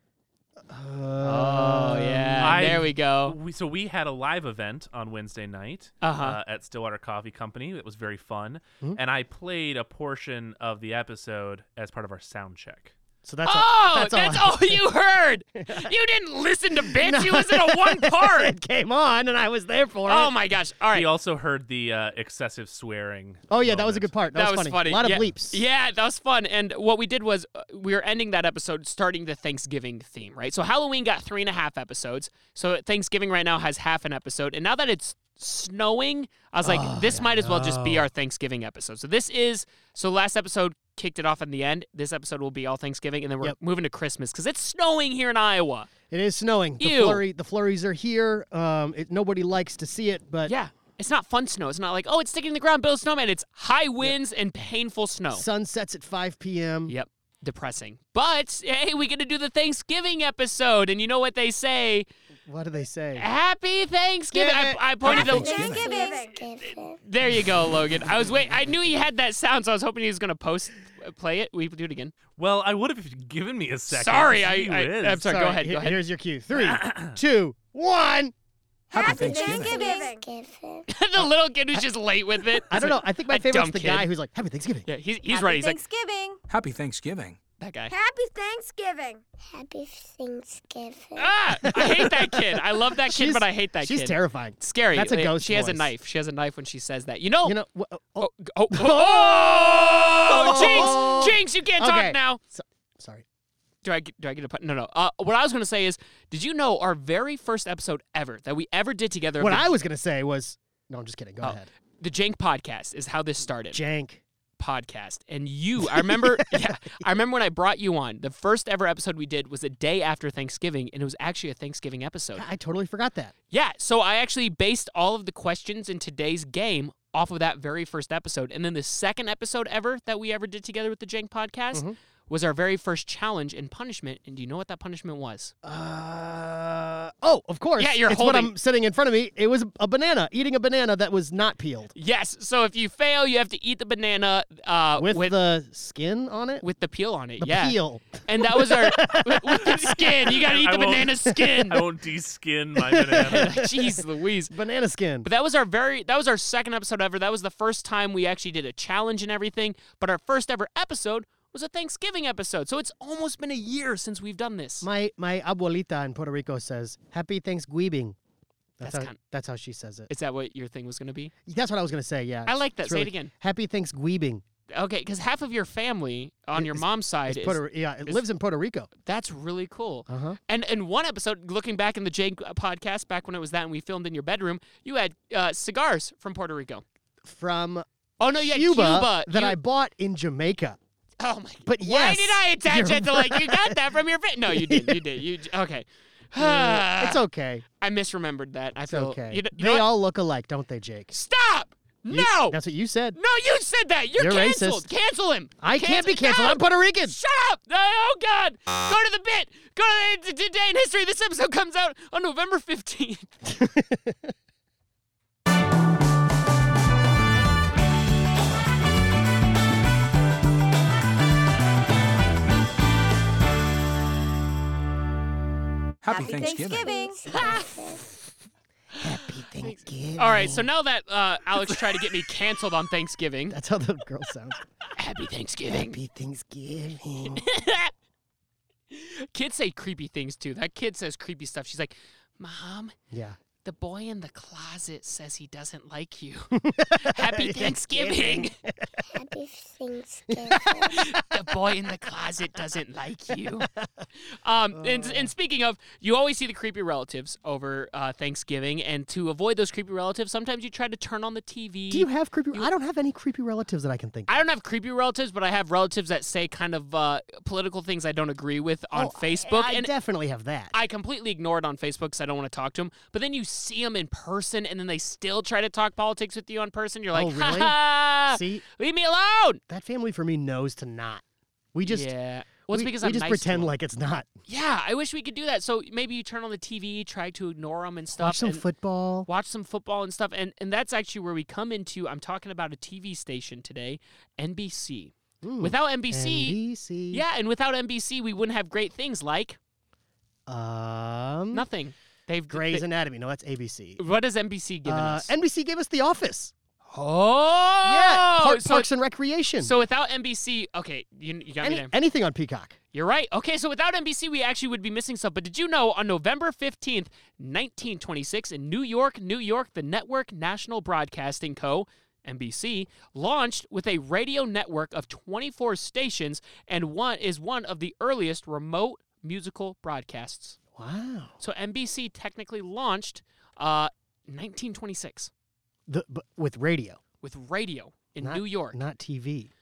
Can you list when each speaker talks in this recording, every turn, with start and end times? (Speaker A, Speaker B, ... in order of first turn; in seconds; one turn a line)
Speaker A: 0.7-2.9
Speaker B: 1.2-3.4
Speaker C: 2.4-12.9
Speaker B: 6.0-6.4
Speaker A: 13.2-14.8
Speaker B: 13.4-18.5
Speaker A: 15.6-15.9
Speaker A: 16.8-20.4
Speaker B: 20.1-21.1
Speaker C: 20.9-24.1
Speaker A: 23.5-25.6
Speaker B: 24.3-45.9
Speaker A: 36.6-38.1
Speaker A: 46.1-50.5
Speaker B: 46.8-47.2
Speaker B: 50.5-55.5
Speaker A: 55.3-56.9
Speaker B: 56.9-62.0
Speaker A: 62.5-63.3
Speaker B: 63.1-65.6
Speaker A: 64.3-65.2
Speaker D: 65.0-65.9
Speaker E: 65.1-66.4
Speaker F: 65.4-67.0
Speaker B: 66.6-72.1
Speaker C: 72.4-75.3
Speaker B: 73.9-76.0
Speaker A: 75.2-78.3
Speaker C: 76.5-77.1
Speaker D: 78.9-79.8
Speaker E: 78.9-80.2
Speaker F: 79.0-80.9
Speaker B: 80.9-84.1
Speaker A: 81.2-81.8
Speaker A: 82.6-84.9
Speaker B: 84.8-85.8
Speaker E: 85.3-86.4
Speaker D: 86.5-87.4
Speaker B: 87.6-87.9
Speaker E: 87.9-89.2
Speaker F: 89.5-92.0
Speaker B: 91.2-97.5
Speaker A: 91.8-95.9
Speaker A: 97.4-103.2
Speaker B: 98.2-102.4
Speaker B: 103.8-109.8
Speaker A: 109.4-111.7
Speaker B: 111.4-113.8
Speaker A: 113.7-114.2
Speaker B: 114.6-122.5
Speaker A: 115.8-117.0
Speaker A: 122.3-123.3
Speaker B: 123.5-135.5
Speaker A: 135.6-141.9
Speaker B: 137.8-138.5
Speaker B: 141.9-145.4
Speaker A: 144.9-146.6
Speaker B: 146.6-151.8
Speaker A: 147.4-150.2
Speaker C: 150.3-153.6
Speaker A: 152.8-155.3
Speaker B: 153.2-154.5
Speaker B: 155.2-164.9
Speaker A: 164.8-168.2
Speaker A: 168.8-170.1
Speaker B: 168.8-169.2
Speaker B: 170.1-171.3
Speaker A: 171.4-174.4
Speaker B: 172.5-173.3
Speaker B: 174.7-178.2
Speaker A: 176.5-178.9
Speaker B: 179.0-186.8
Speaker A: 180.1-180.4
Speaker A: 187.2-187.8
Speaker B: 188.2-189.6
Speaker A: 188.4-190.8
Speaker B: 191.2-197.2
Speaker A: 191.7-193.8
Speaker A: 194.5-195.2
Speaker A: 196.4-197.7
Speaker B: 197.8-199.9
Speaker A: 198.9-201.1
Speaker B: 201.1-202.6
Speaker A: 202.1-203.2
Speaker B: 203.1-213.4
Speaker A: 204.2-204.8
Speaker A: 205.6-207.2
Speaker A: 213.5-214.3
Speaker D: 226.0-227.0
Speaker E: 226.1-227.7
Speaker F: 226.1-228.1
Speaker B: 227.3-227.7
Speaker A: 229.0-230.7
Speaker B: 230.2-233.6
Speaker A: 233.5-234.6
Speaker B: 234.9-235.9
Speaker A: 235.7-237.4
Speaker B: 237.3-237.9
Speaker B: 238.9-242.9
Speaker A: 243.1-243.4
Speaker B: 243.6-248.5
Speaker A: 246.6-248.8
Speaker F: 249.1-251.0
Speaker B: 250.8-253.7
Speaker B: 254.2-262.7
Speaker A: 254.7-255.3
Speaker A: 261.9-264.4
Speaker B: 264.3-269.9
Speaker A: 268.9-270.7
Speaker B: 270.7-279.6
Speaker A: 277.1-278.6
Speaker A: 279.7-282.1
Speaker B: 281.9-283.7
Speaker A: 282.7-284.3
Speaker B: 284.5-288.6
Speaker A: 288.1-289.3
Speaker B: 289.2-296.6
Speaker A: 295.4-297.2
Speaker B: 297.1-299.6
Speaker A: 300.5-301.6
Speaker B: 301.5-302.9
Speaker A: 302.5-304.0
Speaker B: 304.0-305.3
Speaker A: 304.8-306.5
Speaker B: 306.9-308.9
Speaker A: 307.8-309.7
Speaker B: 309.6-311.9
Speaker A: 311.6-312.8
Speaker B: 312.9-330.6
Speaker A: 330.7-331.3
Speaker B: 331.4-335.3
Speaker A: 335.9-337.0
Speaker B: 337.2-338.8
Speaker A: 338.2-339.5